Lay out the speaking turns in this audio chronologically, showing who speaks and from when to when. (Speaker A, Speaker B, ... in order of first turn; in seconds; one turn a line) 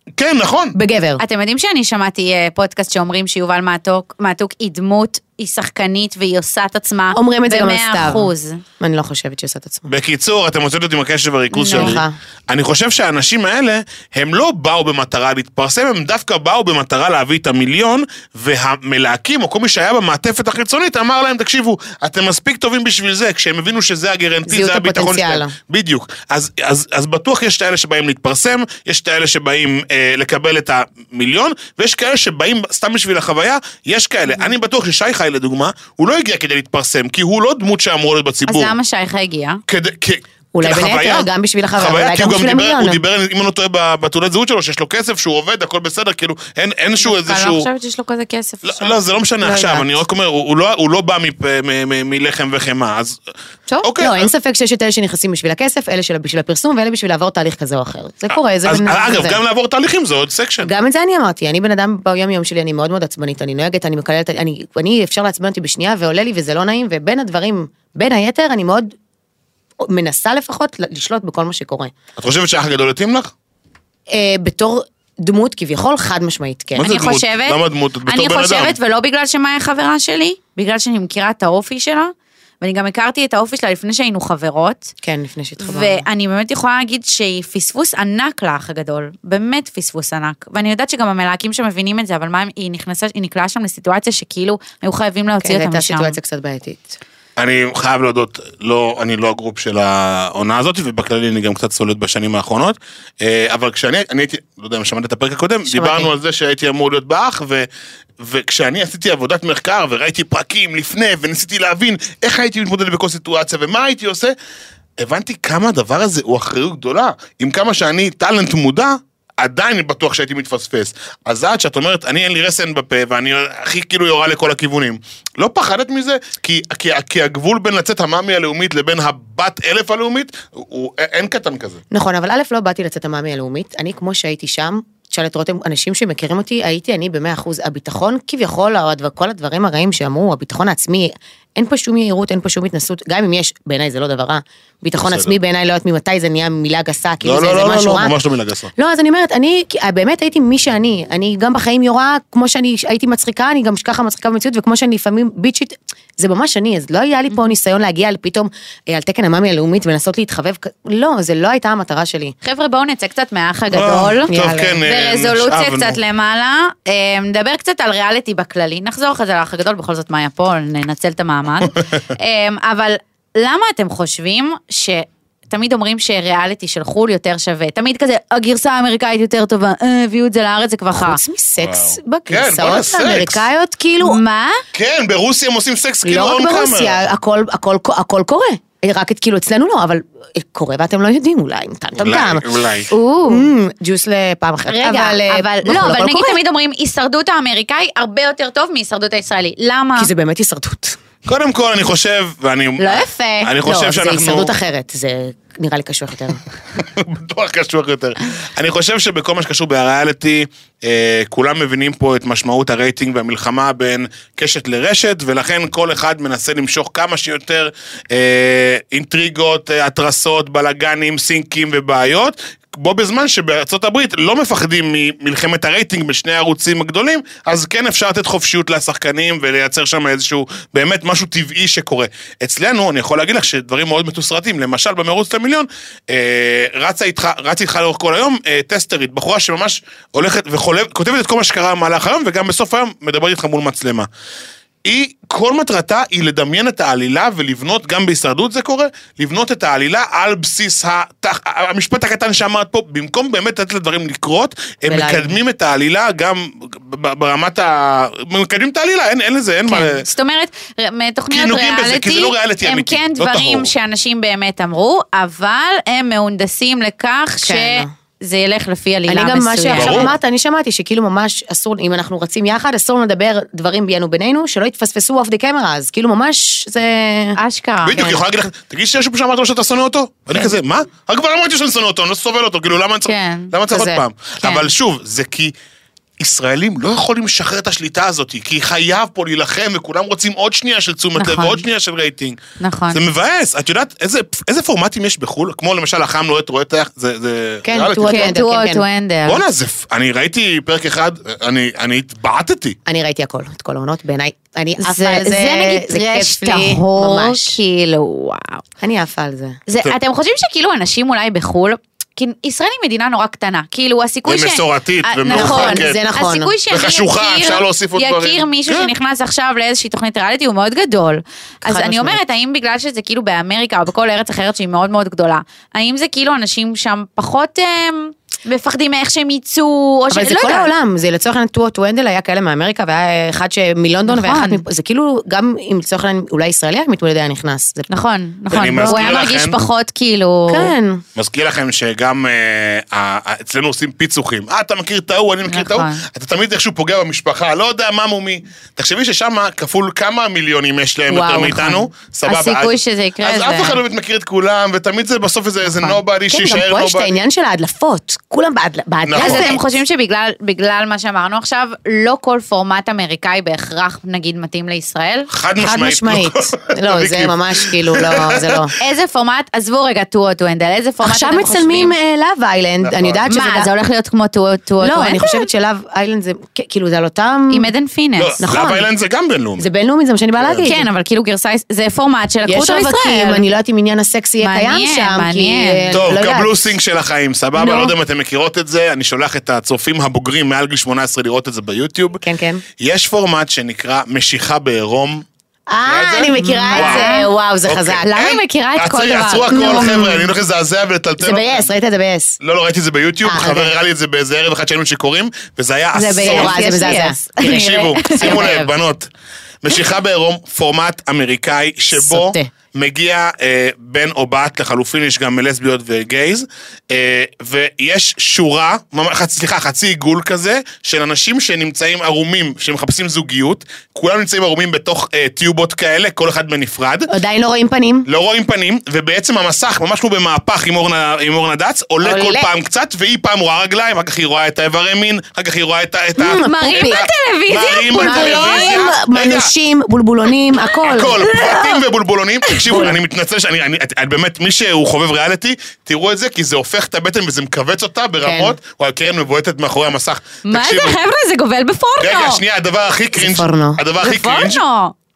Speaker A: 0.2-0.8
Speaker B: 0.7-1.2
Speaker C: 1.2-8.6
Speaker B: 7.1-9.9
Speaker A: 9.9-38.7
Speaker C: 11.5-12.0
Speaker B: 11.7-12.1
Speaker B: 24.4-25.5
Speaker C: 38.5-39.6
Speaker A: 39.7-47.7
Speaker B: 40.5-43.0
Speaker C: 47.0-49.0
Speaker A: 48.6-53.2
Speaker B: 49.4-49.9
Speaker A: 53.8-54.3
Speaker B: 54.0-59.4
Speaker A: 58.6-60.7
Speaker B: 60.6-68.9
Speaker B: 69.8-71.9
Speaker A: 72.2-73.3
Speaker B: 74.1-77.0
Speaker A: 76.8-78.7
Speaker C: 76.8-84.9
Speaker B: 85.0-86.0
Speaker C: 85.6-96.1
Speaker B: 95.4-97.0
Speaker A: 97.4-107.7
Speaker B: 105.7-106.1
Speaker A: 108.2-114.3
Speaker A: 115.0-131.8
Speaker B: 131.9-148.1
Speaker A: 145.0-145.3
Speaker A: 147.2-148.7
Speaker B: 148.8-162.3
Speaker C: 162.4-164.3
Speaker A: 163.7-166.0
Speaker B: 164.3-164.8
Speaker C: 164.8-181.2
Speaker B: 180.9-184.2
Speaker A: 181.6-183.4
Speaker C: 184.0-184.6
Speaker A: 184.7-187.0
Speaker B: 186.0-192.4
Speaker A: 192.0-192.9
Speaker C: 192.9-193.5
Speaker B: 193.3-196.4
Speaker C: 194.7-200.1
Speaker B: 199.9-201.0
Speaker A: 201.2-204.5
Speaker C: 202.8-203.5
Speaker B: 203.6-206.4
Speaker A: 206.8-244.1
Speaker A: 244.8-260.1
Speaker B: 254.8-255.4
Speaker C: 259.7-270.1
Speaker A: 261.3-263.7
Speaker B: 267.4-267.9
Speaker B: 269.1-277.4
Speaker A: 269.7-270.1
Speaker C: 277.4-278.1
Speaker A: 277.8-285.5
Speaker C: 283.0-283.5
Speaker B: 283.7-284.0
Speaker C: 284.4-284.7
Speaker A: 286.2-292.4
Speaker C: 291.2-291.6
Speaker C: 292.6-293.0
Speaker A: 292.9-298.3
Speaker B: 297.6-298.8
Speaker C: 298.0-299.4
Speaker A: 299.3-302.8
Speaker B: 302.9-307.6
Speaker C: 304.8-308.6
Speaker B: 308.8-309.6
Speaker C: 309.7-330.7
Speaker A: 314.2-316.0
Speaker B: 315.3-316.5
Speaker A: 316.7-318.9
Speaker B: 321.6-322.2
Speaker B: 330.1-337.9
Speaker C: 334.1-334.6
Speaker C: 337.9-340.7
Speaker A: 338.5-339.6
Speaker B: 338.5-339.2
Speaker B: 340.5-341.0
Speaker A: 341.1-357.1
Speaker C: 345.5-346.0
Speaker B: 351.1-351.9
Speaker C: 352.2-353.8
Speaker B: 356.3-359.6
Speaker A: 359.1-359.6
Speaker C: 359.2-365.3
Speaker A: 365.3-368.6
Speaker B: 365.6-368.7
Speaker C: 368.8-371.9
Speaker B: 371.0-373.7
Speaker A: 372.8-373.2
Speaker C: 373.3-375.5
Speaker B: 374.8-377.7
Speaker C: 377.5-378.4
Speaker A: 378.2-379.6
Speaker B: 378.4-378.9
Speaker B: 379.6-380.9
Speaker A: 380.4-380.7
Speaker C: 380.6-383.4
Speaker B: 382.4-386.6
Speaker C: 384.4-386.0
Speaker A: 385.9-392.2
Speaker B: 387.5-387.9
Speaker B: 392.2-392.6
Speaker A: 392.8-395.2
Speaker B: 395.7-398.1
Speaker A: 395.8-401.7
Speaker C: 396.4-397.2
Speaker C: 398.0-400.1
Speaker B: 399.5-400.3
Speaker B: 401.2-402.4
Speaker A: 402.4-406.6
Speaker B: 403.2-403.7
Speaker C: 405.9-408.7
Speaker B: 406.2-407.5
Speaker A: 407.4-409.1
Speaker B: 408.1-408.6
Speaker A: 409.6-427.1
Speaker B: 411.9-412.5
Speaker B: 427.1-428.1
Speaker A: 428.1-439.5
Speaker B: 432.0-432.5
Speaker B: 436.2-437.0
Speaker C: 436.4-438.8
Speaker B: 437.9-441.3
Speaker A: 440.9-451.0
Speaker C: 441.1-441.8
Speaker C: 442.5-442.9
Speaker B: 448.2-448.5
Speaker C: 450.4-452.4
Speaker A: 452.0-454.6
Speaker B: 453.1-453.8
Speaker C: 454.0-454.9